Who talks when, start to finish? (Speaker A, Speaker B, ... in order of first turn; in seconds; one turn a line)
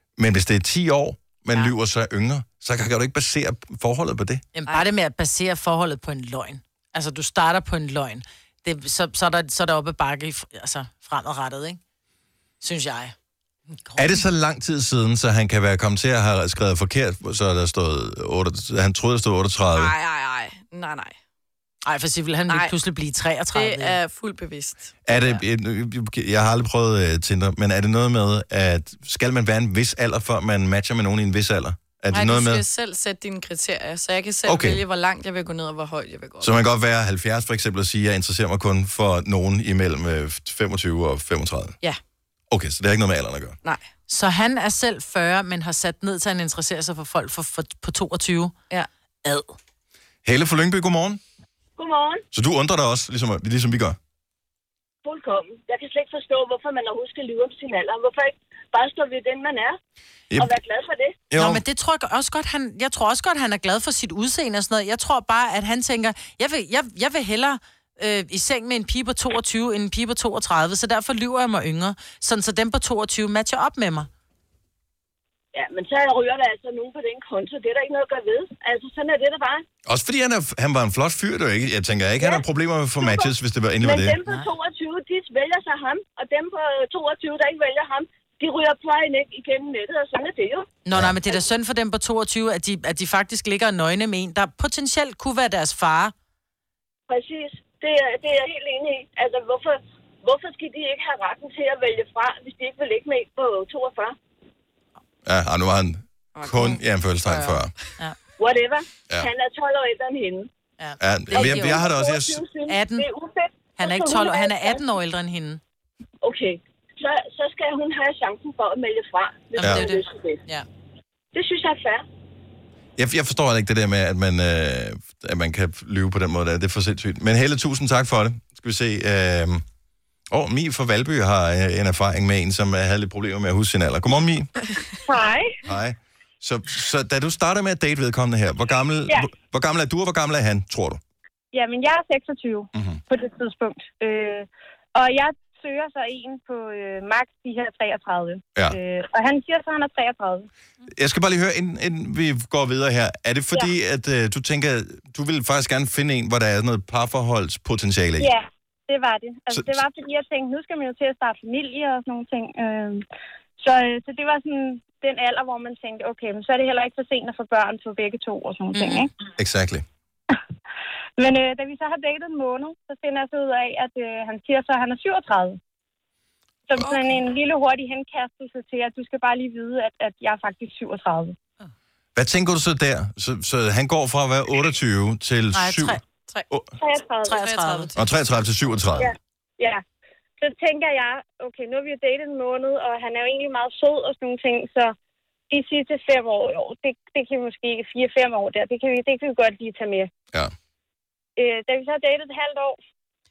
Speaker A: 0.2-4.4
Speaker B: 4.5-11.8
Speaker B: 12.6-13.1
Speaker A: 14.0-19.9
Speaker C: 19.8-21.2
Speaker B: 21.9-24.0
Speaker C: 22.5-22.7
Speaker C: 23.5-25.4
Speaker A: 25.1-32.6
Speaker C: 32.1-36.6
Speaker A: 34.5-34.8
Speaker A: 36.4-41.8
Speaker A: 42.5-43.6
Speaker B: 44.1-48.5
Speaker B: 49.2-49.5
Speaker A: 50.2-51.2
Speaker D: 51.9-52.2
Speaker A: 52.3-54.0
Speaker D: 55.5-58.1
Speaker D: 58.7-59.6
Speaker A: 60.3-60.6
Speaker D: 60.4-61.0
Speaker A: 61.3-61.6
Speaker B: 61.4-74.1
Speaker D: 75.6-79.6
Speaker A: 79.9-84.2
Speaker D: 83.9-90.6
Speaker B: 84.2-84.5
Speaker B: 90.8-96.1
Speaker D: 97.1-99.7
Speaker D: 100.2-104.1
Speaker A: 105.2-107.7
Speaker C: 106.3-107.5
Speaker D: 108.4-110.5
Speaker B: 110.8-111.9
Speaker A: 111.0-112.4
Speaker D: 111.8-114.8
Speaker B: 112.7-113.1
Speaker B: 113.8-115.6
Speaker D: 116.3-120.4
Speaker B: 119.5-120.7
Speaker A: 119.6-119.9
Speaker D: 121.3-122.0
Speaker A: 123.0-129.6
Speaker A: 130.3-134.5
Speaker E: 135.1-135.6
Speaker A: 135.6-141.0
Speaker E: 141.5-150.5
Speaker A: 142.7-143.0
Speaker A: 150.9-158.3
Speaker E: 158.2-163.0
Speaker E: 163.6-169.1
Speaker B: 168.7-169.1
Speaker A: 169.4-169.8
Speaker E: 171.2-175.6
Speaker E: 176.7-181.3
Speaker A: 182.2-186.7
Speaker B: 185.5-186.0
Speaker E: 186.8-187.3
Speaker B: 187.2-187.9
Speaker C: 187.2-188.4
Speaker A: 188.0-189.1
Speaker E: 189.0-189.8
Speaker E: 190.4-194.9
Speaker E: 195.5-200.1
Speaker E: 201.4-202.8